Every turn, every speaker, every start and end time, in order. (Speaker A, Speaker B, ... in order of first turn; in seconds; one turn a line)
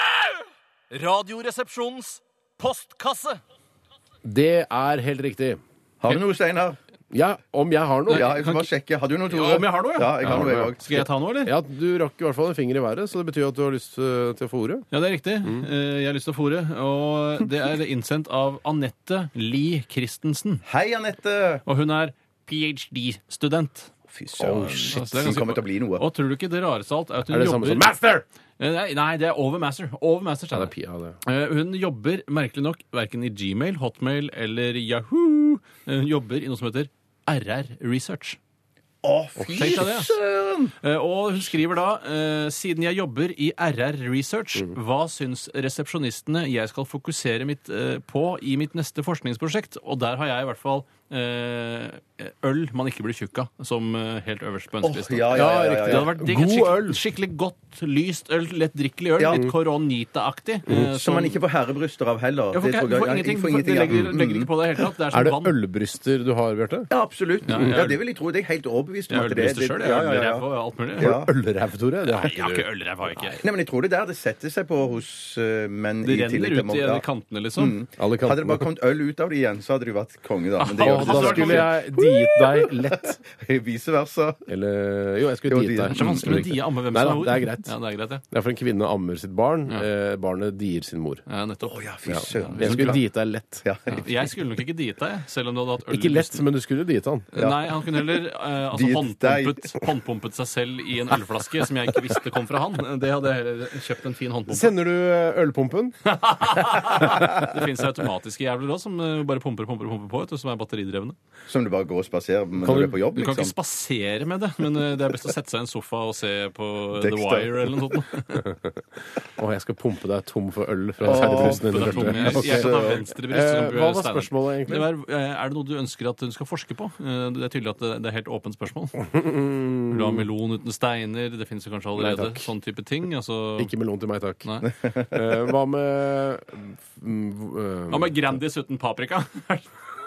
Speaker A: 0.9-3.4
Speaker B: 4.2-5.6
Speaker C: 6.0-6.8
Speaker B: 7.1-8.3
Speaker A: 8.1-8.7
Speaker C: 8.1-11.0
Speaker A: 9.3-11.5
Speaker B: 10.2-14.9
Speaker A: 14.9-20.6
Speaker C: 20.7-21.6
Speaker A: 21.7-23.9
Speaker C: 24.1-26.1
Speaker B: 24.4-25.0
Speaker A: 24.6-27.9
Speaker B: 27.3-28.2
Speaker A: 28.6-30.7
Speaker B: 30.5-31.2
Speaker A: 31.2-38.4
Speaker C: 39.0-40.7
Speaker B: 39.4-39.8
Speaker A: 39.5-40.2
Speaker A: 40.8-61.4
Speaker C: 54.8-56.1
Speaker B: 55.3-57.0
Speaker C: 59.2-59.5
Speaker C: 60.8-64.5
Speaker A: 62.5-65.6
Speaker B: 65.1-66.9
Speaker C: 66.9-71.3
Speaker A: 67.5-68.0
Speaker B: 67.5-67.8
Speaker A: 69.1-71.1
Speaker B: 71.0-72.7
Speaker A: 72.0-73.4
Speaker C: 73.4-77.0
Speaker A: 76.0-77.8
Speaker C: 77.6-84.5
Speaker B: 78.0-78.7
Speaker A: 80.6-81.7
Speaker B: 80.8-83.2
Speaker B: 84.5-87.7
Speaker C: 85.5-86.3
Speaker A: 85.9-88.2
Speaker B: 88.3-91.2
Speaker A: 91.3-93.0
Speaker C: 91.6-93.1
Speaker B: 92.1-93.7
Speaker C: 93.6-94.0
Speaker A: 93.9-96.5
Speaker B: 95.9-97.3
Speaker A: 97.3-104.7
Speaker C: 97.4-98.2
Speaker C: 98.7-99.7
Speaker B: 104.5-106.0
Speaker A: 106.0-111.2
Speaker C: 111.5-113.5
Speaker B: 112.6-113.0
Speaker A: 113.2-118.5
Speaker C: 117.0-117.8
Speaker B: 118.4-124.9
Speaker C: 121.0-123.0
Speaker A: 121.1-129.1
Speaker B: 129.0-130.3
Speaker A: 129.9-133.7
Speaker B: 132.0-132.5
Speaker B: 133.6-138.4
Speaker A: 134.4-134.7
Speaker A: 137.9-139.7